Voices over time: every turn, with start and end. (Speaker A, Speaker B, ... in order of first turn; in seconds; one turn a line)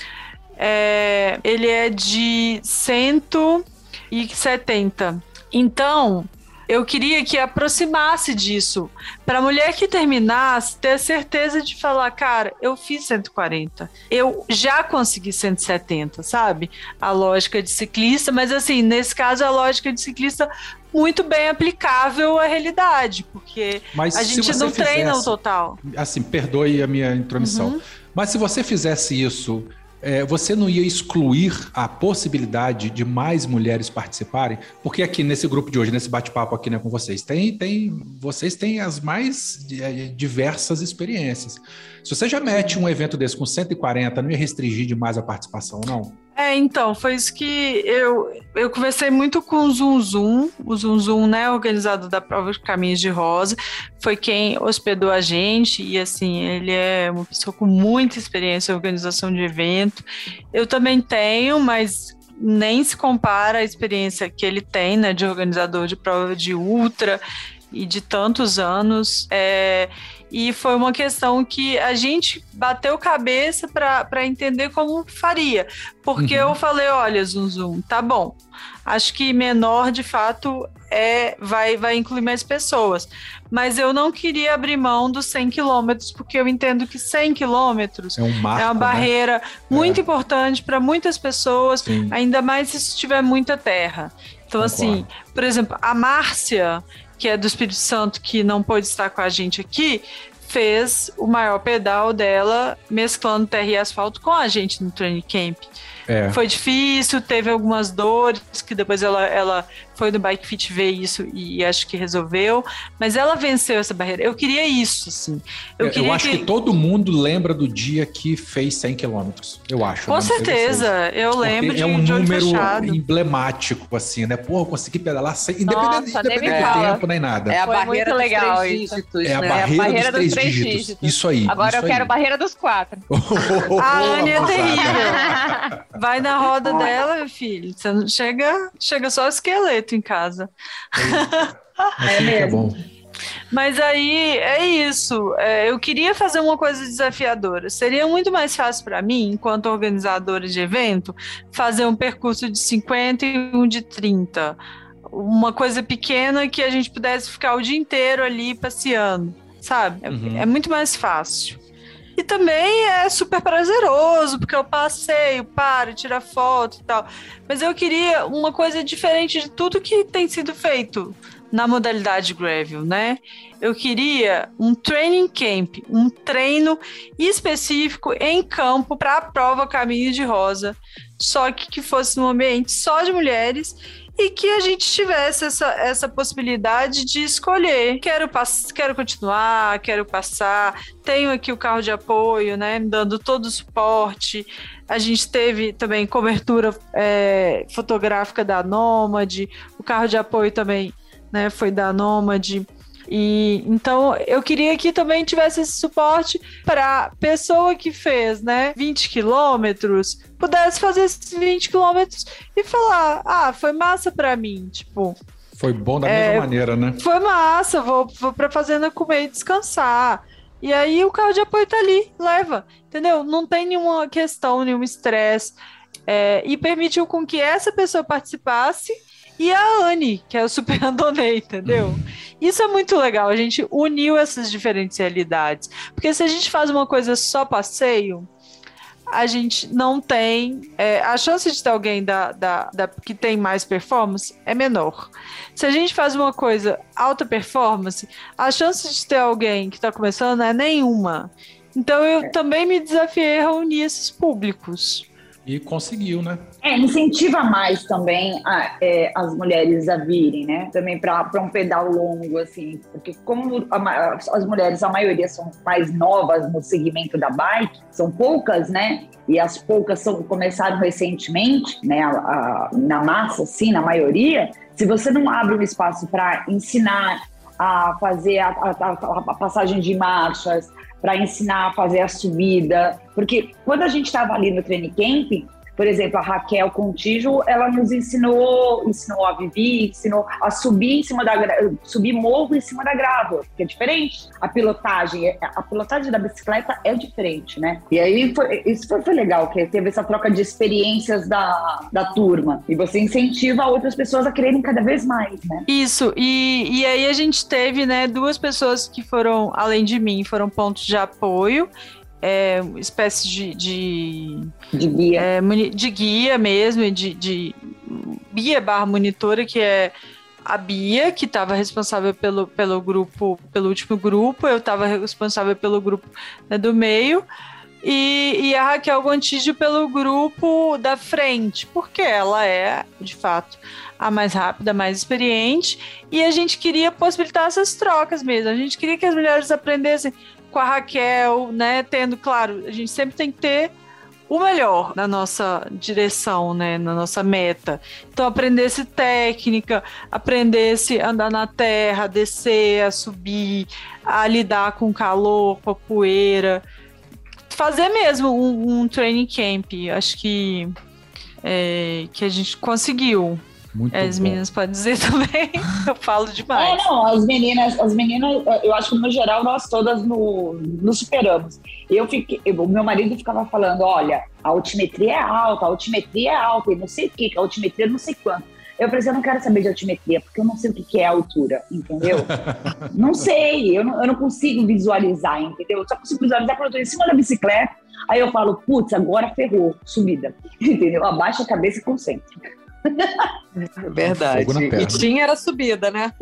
Speaker A: 0.6-25.8
Speaker B: 23.9-46.2
Speaker A: 27.4-27.8
Speaker A: 46.4-105.7
Speaker B: 76.2-76.6
Speaker B: 88.2-89.1
Speaker B: 89.7-90.0
Speaker B: 91.8-92.2
Speaker B: 94.6-95.1
Speaker B: 106.1-106.4
Speaker A: 106.3-116.5
Speaker B: 115.8-127.6
Speaker A: 120.1-123.0
Speaker C: 125.7-127.0
Speaker D: 126.4-126.9
Speaker D: 127.5-130.2
Speaker C: 127.6-133.1
Speaker B: 129.2-132.1
Speaker B: 133.1-135.7
Speaker A: 133.8-135.3
Speaker E: 134.1-134.6
Speaker C: 134.9-135.7
Speaker A: 135.9-141.9
Speaker E: 136.7-137.0
Speaker B: 141.0-142.8
Speaker E: 142.0-142.8
Speaker A: 143.5-154.6
Speaker A: 155.1-161.6
Speaker B: 160.1-160.5
Speaker A: 162.2-215.2
Speaker B: 215.6-217.0
Speaker A: 216.1-225.6
Speaker A: 226.1-238.3
Speaker B: 231.7-232.0
Speaker A: 239.1-255.1
Speaker B: 255.5-256.4
Speaker E: 256.6-305.7
Speaker A: 305.7-311.7
Speaker A: 312.2-314.5
Speaker E: 314.7-315.3
Speaker A: 315.2-319.9
Speaker A: 320.5-327.2
Speaker A: 327.8-343.7
Speaker A: 344.3-356.6
Speaker A: 357.5-360.8
Speaker A: 361.4-366.9
Speaker B: 363.7-364.4
Speaker E: 366.5-382.3
Speaker B: 382.0-382.9
Speaker E: 382.9-392.2
Speaker D: 393.8-396.1
Speaker B: 394.0-395.1
Speaker E: 394.3-394.9